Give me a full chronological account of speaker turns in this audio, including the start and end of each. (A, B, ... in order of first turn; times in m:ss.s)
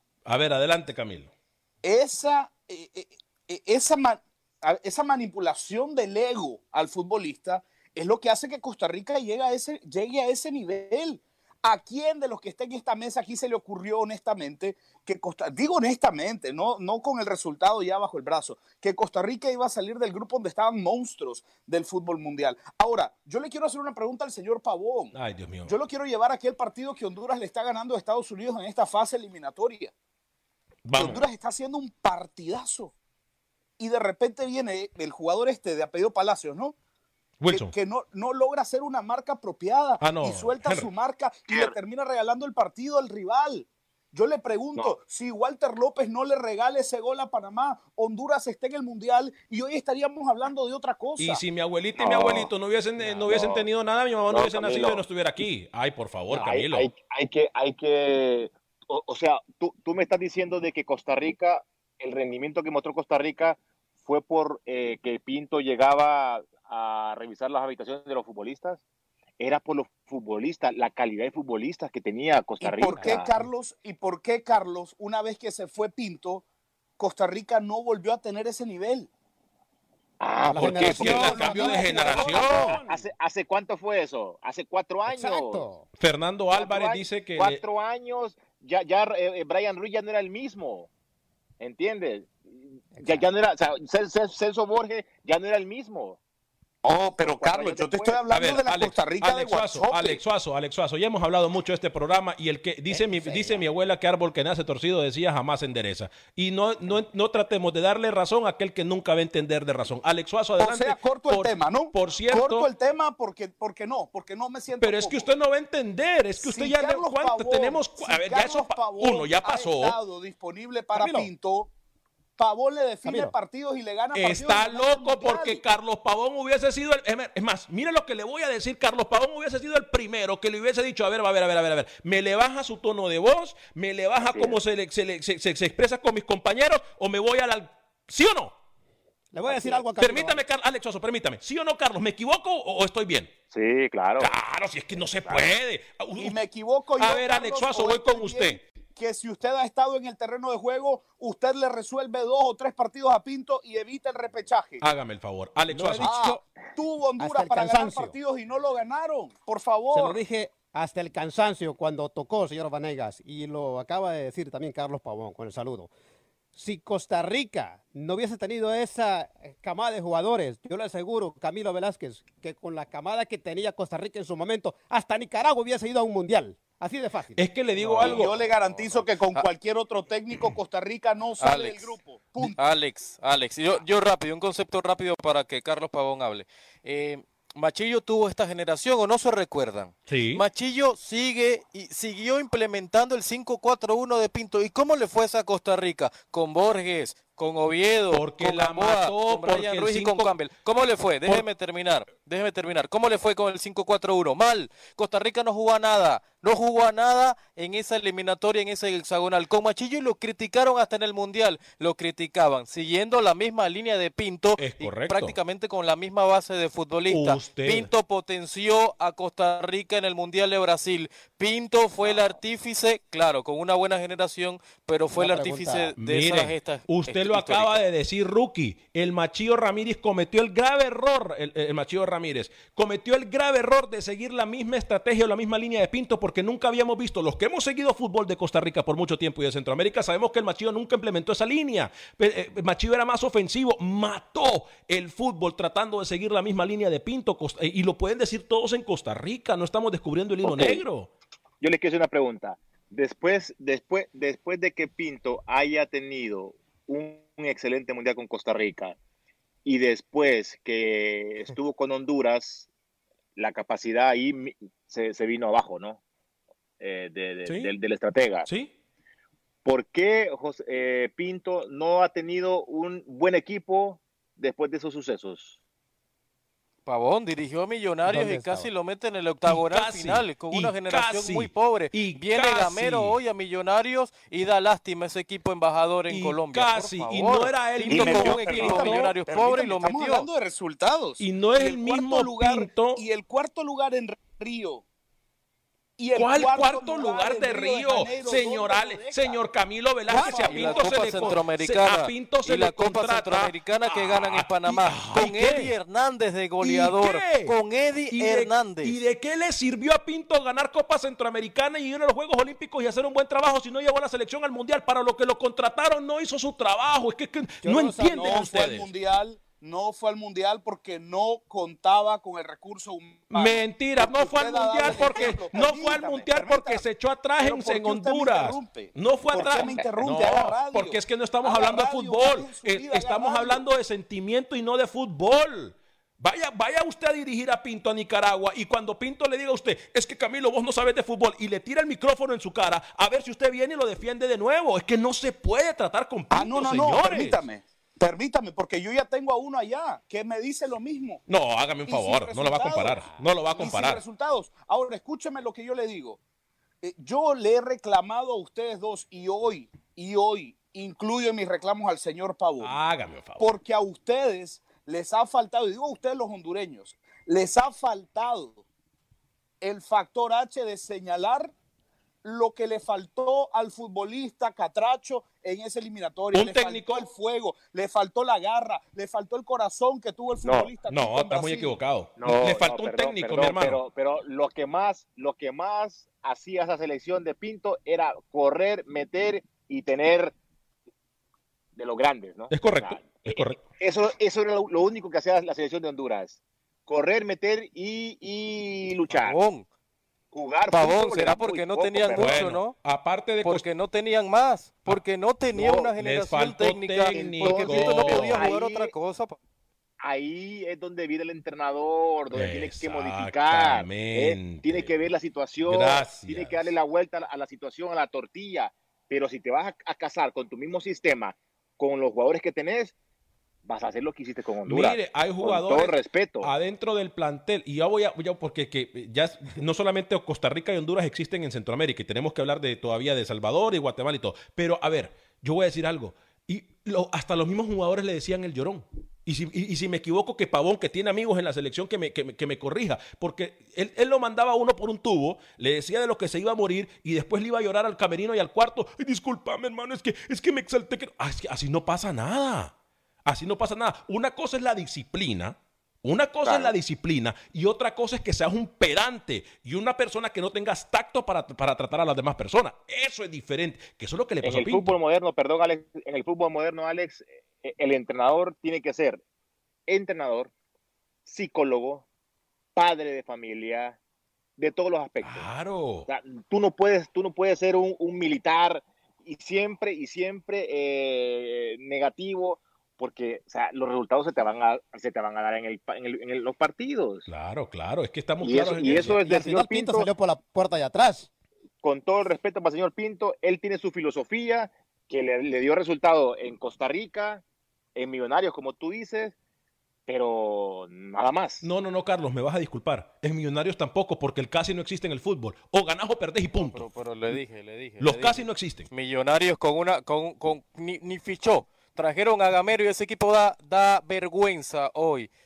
0:00.2-0:01.3 A
0:01.8-0:25.1 B
0:25.1-0:25.7 A
0:25.6-0:29.9 B
0:30.8-0:31.3 A
0:31.0-0:32.9 B
0:33.8-0:36.7 B
0:37.4-0:37.7 A
0:37.5-0:51.4 B
0:40.0-0:40.9 A
0:41.5-0:41.7 C
0:51.2-0:56.9 A
0:52.0-0:52.5 C
0:53.2-0:53.7 C
0:54.3-0:55.0 C
0:56.3-0:56.6 D
0:56.3-1:08.8 C
1:09.4-1:13.3 C
1:12.6-1:16.4 B
1:13.0-1:13.5 D
1:17.0-1:19.1 B
1:20.2-1:25.6 C
1:20.4-1:23.0 D
1:20.5-1:22.8 A
1:21.0-1:22.6 B
1:25.0-1:25.9 D
1:26.0-1:27.6 A
1:26.5-1:30.9 C
1:31.6-1:36.2 C
1:32.9-1:33.3 D
1:36.8-1:40.2 B
1:37.2-1:38.2 C
1:38.3-1:52.7 A
1:42.9-1:43.6 D
1:50.6-1:55.3 B
1:54.8-2:00.0 A
1:56.4-2:01.7 B
2:00.9-2:01.3 A
2:02.4-2:05.6 B
2:03.0-2:03.3 D
2:04.1-2:18.5 A
2:14.2-2:14.6 C
2:19.3-2:20.4 D
2:20.0-2:23.3 A
2:23.5-2:24.3 C
2:24.2-2:26.4 A
2:25.2-2:25.5 C
2:26.2-2:34.8 B
2:27.0-2:28.6 A
2:34.8-2:36.4 A
2:35.7-2:36.3 D
2:36.0-2:40.2 B
2:37.2-2:38.1 D
2:39.9-2:40.2 A
2:40.2-2:45.9 D
2:46.5-2:57.6 D
2:57.4-2:58.3 A
2:57.8-2:58.3 E
2:58.0-3:02.6 B
3:01.4-3:47.8 E
3:10.1-3:10.4 A
3:18.1-3:20.4 A
3:34.6-3:35.4 A
3:37.1-3:37.9 A
3:45.1-3:46.0 D
3:46.0-4:11.1 A
4:10.4-4:10.8 C
4:11.6-4:19.0 C
4:19.6-4:22.7 C
4:23.4-4:26.0 C
4:26.8-4:28.5 C
4:27.4-4:27.7 A
4:28.4-4:28.7 A
4:29.6-4:35.6 C
4:36.8-4:50.3 E
4:38.0-4:38.7 D
4:39.4-4:43.2 A
4:46.1-4:49.1 A
4:47.9-4:54.8 B
4:51.2-4:53.0 A
4:56.0-4:59.4 B
4:56.1-5:05.7 A
5:00.1-5:01.4 B
5:00.2-5:09.0 E
5:06.6-5:07.5 A
5:08.1-5:18.9 A
5:17.6-5:18.5 D
5:18.1-5:26.8 B
5:23.3-5:47.4 A
5:27.4-5:33.6 B
5:29.5-5:29.9 C
5:46.3-5:51.2 B
5:51.3-5:54.0 A
5:51.9-5:56.2 B
5:56.8-6:02.8 B
6:02.6-6:03.5 A
6:03.4-6:08.6 B
6:09.6-6:11.5 B
6:12.2-6:21.7 B
6:16.3-6:17.1 A
6:20.4-6:20.7 C
6:20.8-6:23.8 A
6:22.2-6:30.3 C
6:31.7-6:39.4 C
6:32.5-6:33.6 A
6:39.1-6:39.6 E
6:40.3-6:42.4 C
6:40.7-6:42.8 E
6:42.1-6:43.6 A
6:43.4-6:49.4 E
6:45.6-6:45.9 C
6:45.6-6:48.5 A
6:47.1-6:48.9 C
6:50.0-7:02.9 C
6:52.3-6:55.1 A
6:55.6-6:56.7 A
7:03.6-7:06.5 C
7:04.6-7:32.7 A
7:33.2-7:45.0 A
7:36.4-7:36.7 C
7:44.4-7:49.2 C
7:49.9-7:50.5 C
7:51.2-7:52.0 C
7:52.7-7:54.0 C
7:54.6-7:55.5 C
7:55.2-7:56.1 A
7:56.1-8:07.3 C
8:07.3-8:09.2 A
8:08.4-8:10.1 C
8:09.1-8:11.3 D
8:11.8-8:17.4 C
8:17.9-8:19.3 C
8:20.1-8:21.7 C
8:21.6-8:27.4 A
8:26.5-8:35.3 E
8:28.0-8:28.9 A